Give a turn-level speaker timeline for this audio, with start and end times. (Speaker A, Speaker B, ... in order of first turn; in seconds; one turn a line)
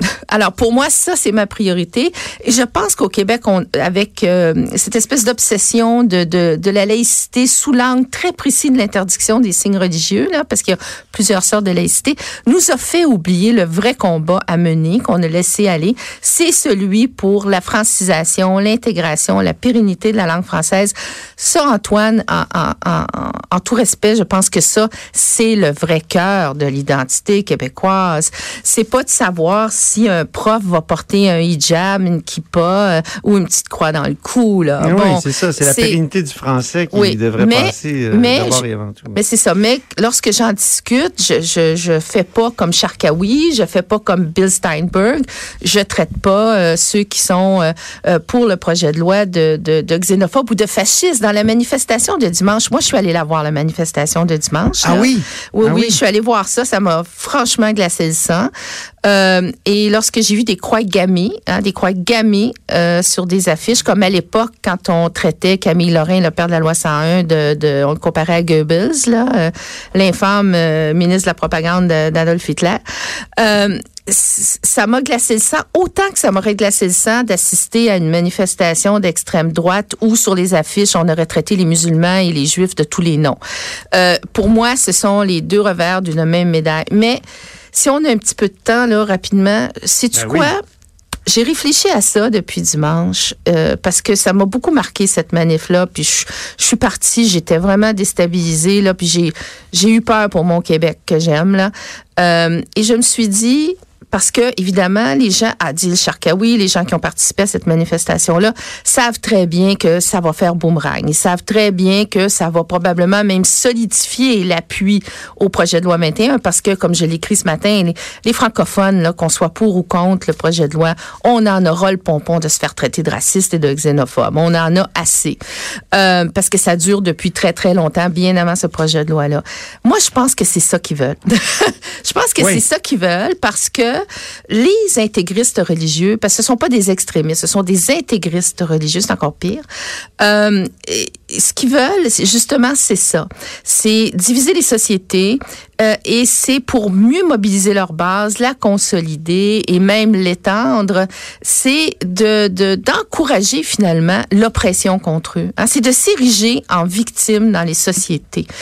Speaker A: 0.3-36.0
Speaker B: 34.8-39.2
Speaker A: 36.9-58.5
Speaker B: 54.8-56.0
Speaker A: 59.0-72.8
Speaker A: 73.4-83.4
Speaker A: 83.9-87.2
Speaker A: 87.7-90.6
Speaker B: 90.1-90.5
Speaker A: 91.3-125.4
Speaker A: 125.9-139.6
Speaker A: 140.2-158.5